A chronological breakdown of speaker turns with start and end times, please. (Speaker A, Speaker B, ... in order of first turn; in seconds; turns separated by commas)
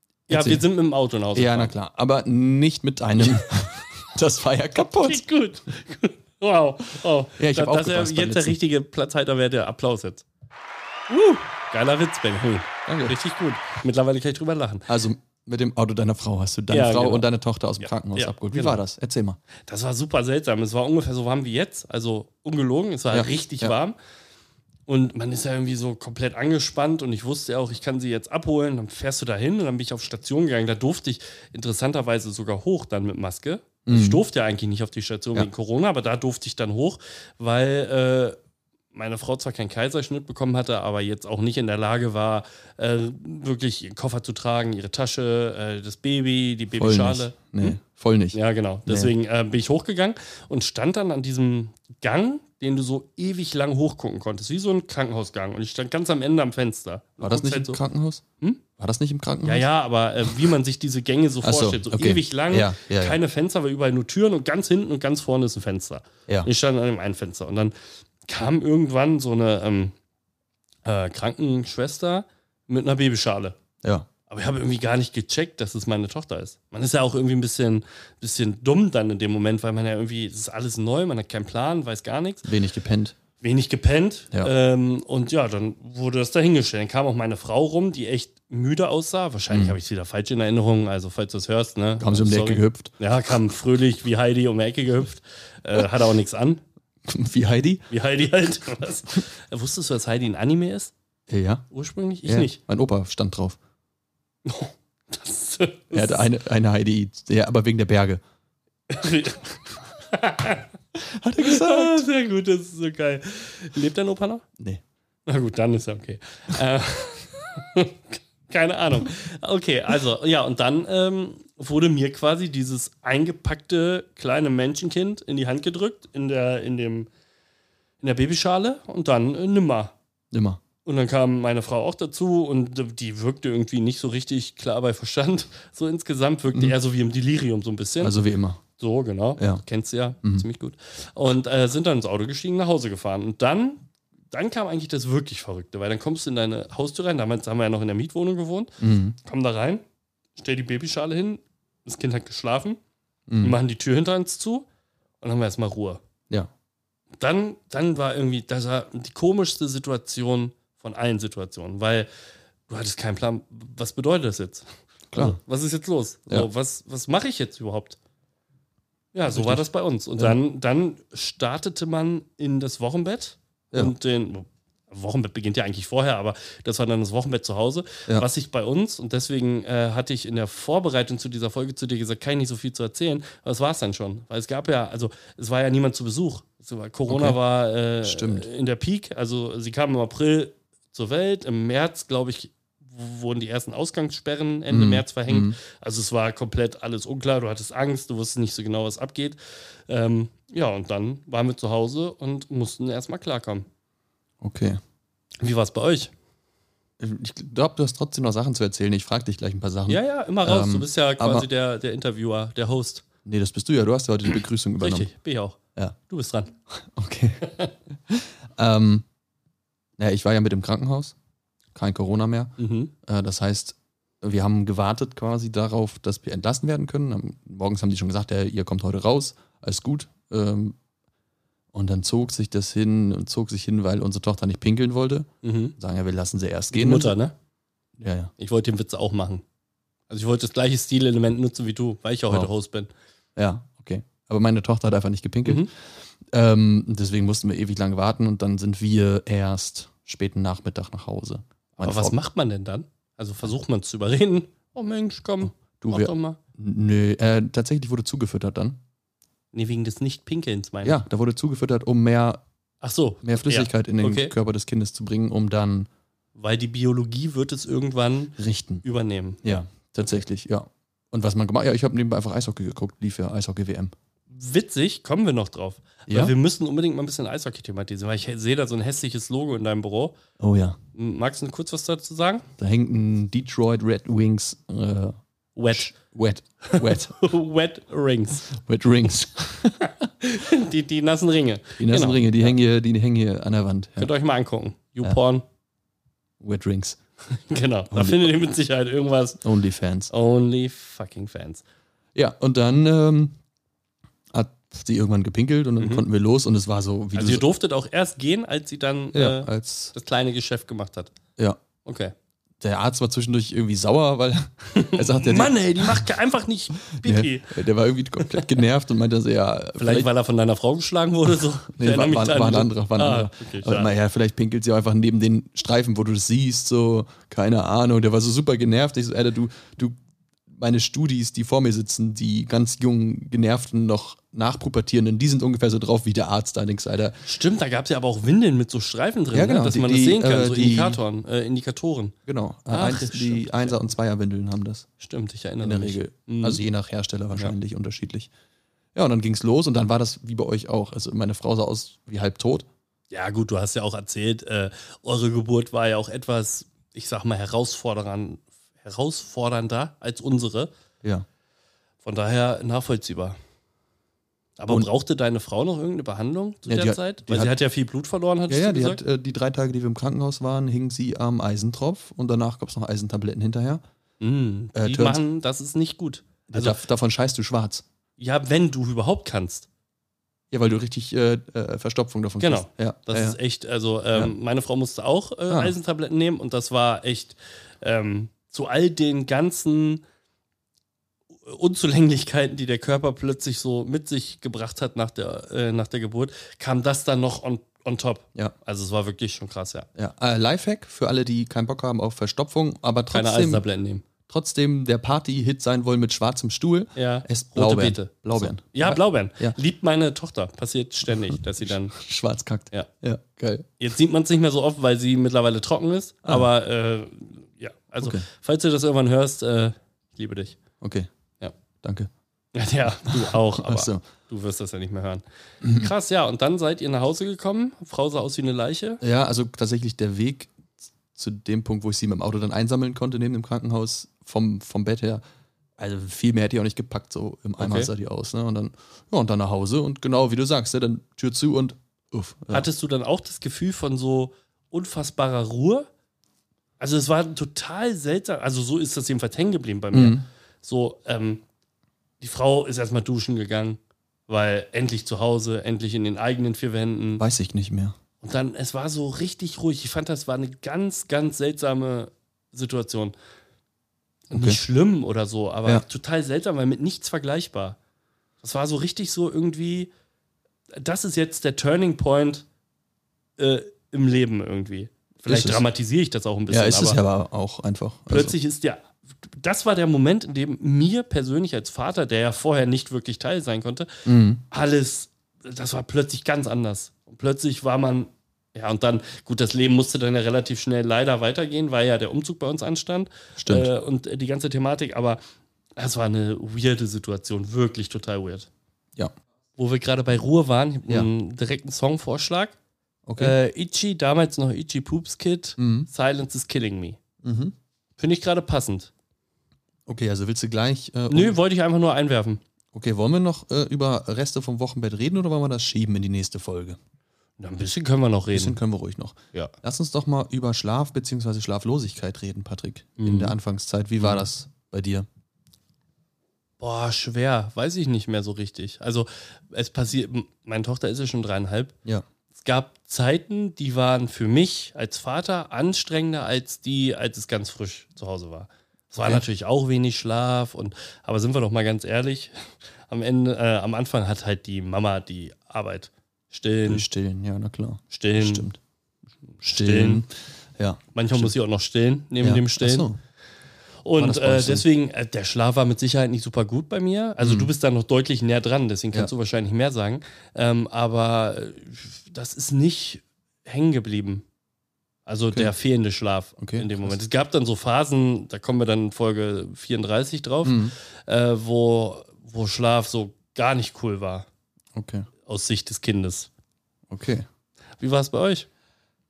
Speaker A: 0.3-1.7, Speaker B: 0.3-0.6, Speaker B: 1.3-5.2, Speaker A: 4.9-10.2, Speaker B: 7.4-8.6, Speaker A: 11.1-14.9, Speaker B: 12.9-13.2, Speaker B: 14.9-19.4, Speaker A: 16.7-17.3, Speaker A: 17.8-18.8, Speaker A: 19.7-23.9, Speaker B: 23.1-23.8, Speaker A: 24.9-38.4, Speaker B: 33.9-34.2, Speaker A: 38.9-47.8, Speaker B: 46.8-49.1, Speaker A: 48.3-57.8, Speaker B: 57.2-58.2, Speaker B: 58.8-59.7, Speaker A: 59.4-67.7, Speaker B: 61.4-63.2, Speaker A: 68.3-69.9, Speaker A: 70.8-73.6, Speaker B: 73.8-74.1, Speaker A: 74.3-82.5, Speaker B: 82.4-83.2, Speaker A: 83.4-96.6, Speaker B: 89.5-89.8, Speaker B: 92.0-92.9, Speaker B: 97.0-97.8, Speaker A: 97.9-100.9, Speaker B: 101.3-101.7, Speaker A: 101.7-102.6, Speaker B: 102.2-103.6, Speaker A: 104.4-106.3, Speaker B: 105.9-108.2, Speaker A: 108.9-110.7, Speaker B: 111.0-112.0, Speaker A: 111.4-114.4, Speaker A: 115.2-127.1, Speaker A: 128.0-129.9, Speaker B: 130.3-130.6, Speaker A: 130.8-138.2, Speaker B: 138.0-138.6, Speaker A: 138.8-149.8, Speaker B: 148.8-149.2, Speaker A: 150.3-152.8, Speaker B: 153.3-153.6, Speaker A: 153.4-154.7, Speaker A: 155.2-156.0, Speaker A: 157.2-162.1, Speaker A: 162.7-168.0, Speaker B: 165.1-165.4, Speaker A: 169.1-203.7, Speaker B: 169.3-169.6, Speaker B: 187.1-187.4, Speaker B: 188.0-188.5, Speaker B: 194.7-195.6, Speaker B: 204.4-204.8, Speaker A: 205.4-206.1, Speaker B: 207.0-211.5, Speaker A: 209.9-213.0, Speaker B: 213.2-215.1, Speaker A: 214.8-216.6, Speaker B: 216.8-217.4, Speaker A: 217.4-217.7, Speaker B: 218.1-219.0, Speaker B: 220.0-221.2, Speaker B: 221.7-230.8, Speaker A: 222.6-222.9, Speaker B: 231.7-237.2, Speaker A: 235.4-235.7, Speaker A: 236.7-237.3, Speaker B: 238.0-238.3, Speaker A: 238.4-239.4, Speaker A: 240.1-242.9, Speaker B: 243.3-245.7, Speaker B: 246.3-252.2, Speaker A: 251.8-256.4, Speaker B: 255.6-258.8, Speaker A: 259.5-261.0, Speaker B: 260.8-262.4, Speaker A: 262.8-264.3, Speaker B: 263.2-265.9, Speaker A: 266.4-269.6, Speaker B: 268.4-268.8, Speaker B: 269.4-273.9, Speaker A: 274.3-280.1, Speaker B: 276.1-276.3, Speaker B: 280.4-280.8, Speaker A: 280.9-282.5, Speaker B: 282.6-285.2, Speaker A: 285.6-285.9, Speaker B: 285.7-287.1, Speaker A: 286.6-288.5, Speaker B: 288.5-290.0, Speaker A: 289.8-292.6, Speaker B: 291.8-294.1, Speaker A: 294.0-295.4, Speaker B: 296.4-297.0, Speaker A: 297.3-299.4, Speaker B: 297.9-298.3, Speaker B: 299.4-300.1, Speaker A: 300.1-301.6, Speaker B: 302.1-303.4, Speaker B: 304.3-307.4, Speaker A: 305.8-306.0, Speaker A: 307.1-311.1, Speaker B: 309.1-309.9, Speaker A: 311.8-312.1, Speaker B: 312.6-316.1, Speaker A: 314.7-317.6, Speaker B: 316.9-320.1, Speaker A: 318.2-318.5, Speaker A: 319.8-323.9, Speaker B: 321.7-329.9, Speaker B: 330.5-337.2, Speaker A: 337.2-342.1, Speaker B: 339.3-341.0, Speaker B: 342.3-344.9, Speaker A: 342.7-343.8, Speaker A: 345.0-346.6, Speaker B: 345.6-348.3, Speaker B: 348.9-352.7, Speaker A: 353.1-360.7, Speaker A: 362.0-363.4, Speaker A: 364.6-369.0, Speaker B: 366.7-367.6, Speaker B: 368.5-373.8, Speaker A: 374.2-376.8, Speaker B: 374.7-375.2, Speaker B: 376.5-377.8, Speaker A: 378.2-379.7, Speaker B: 380.5-383.4, Speaker A: 382.4-390.0, Speaker A: 391.4-399.9, Speaker B: 399.9-403.6, Speaker A: 403.1-404.0, Speaker B: 404.3-409.6, Speaker A: 406.9-411.9, Speaker B: 411.3-413.7, Speaker A: 413.8-420.6, Speaker B: 418.0-418.2, Speaker B: 420.8-421.1, Speaker B: 421.8-422.1, Speaker A: 422.5-429.0, Speaker B: 423.1-424.0, Speaker B: 425.6-425.9, Speaker B: 429.0-435.2, Speaker B: 435.8-442.7, Speaker A: 437.6-437.9, Speaker A: 442.5-445.9, Speaker A: 446.8-451.4, Speaker B: 449.9-450.2, Speaker A: 452.2-457.2, Speaker B: 457.2-458.0, Speaker A: 458.2-463.1, Speaker A: 464.3-467.8, Speaker B: 464.3-464.6, Speaker A: 468.4-469.9, Speaker A: 470.8-472.4, Speaker A: 473.4-477.0, Speaker B: 475.3-475.6, Speaker B: 476.5-478.3, Speaker A: 478.1-495.2, Speaker B: 484.1-484.4, Speaker B: 493.4-493.7, Speaker A: 495.8-498.5, Speaker A: 499.6-502.5, Speaker B: 503.1-503.4, Speaker A: 503.2-507.0, Speaker B: 505.6-505.9, Speaker B: 507.2-507.5, Speaker A: 508.0-508.9, Speaker B: 509.9-511.4, Speaker A: 511.1-512.4, Speaker B: 512.7-516.8, Speaker A: 517.4-518.6, Speaker B: 518.3-525.1, Speaker A: 523.0-523.3, Speaker A: 526.6-531.7, Speaker A: 532.3-542.4, Speaker A: 542.9-546.8, Speaker B: 546.6-548.6, Speaker A: 547.9-548.5, Speaker A: 549.4-550.0, Speaker B: 549.5-551.3, Speaker A: 550.9-552.9, Speaker B: 552.2-553.0, Speaker A: 553.8-564.2, Speaker B: 554.0-554.6, Speaker B: 557.2-557.5, Speaker A: 565.0-574.2, Speaker B: 566.4-567.0, Speaker B: 570.4-570.7, Speaker B: 574.7-575.1, Speaker A: 575.2-576.3, Speaker B: 576.9-577.2, Speaker A: 577.8-578.5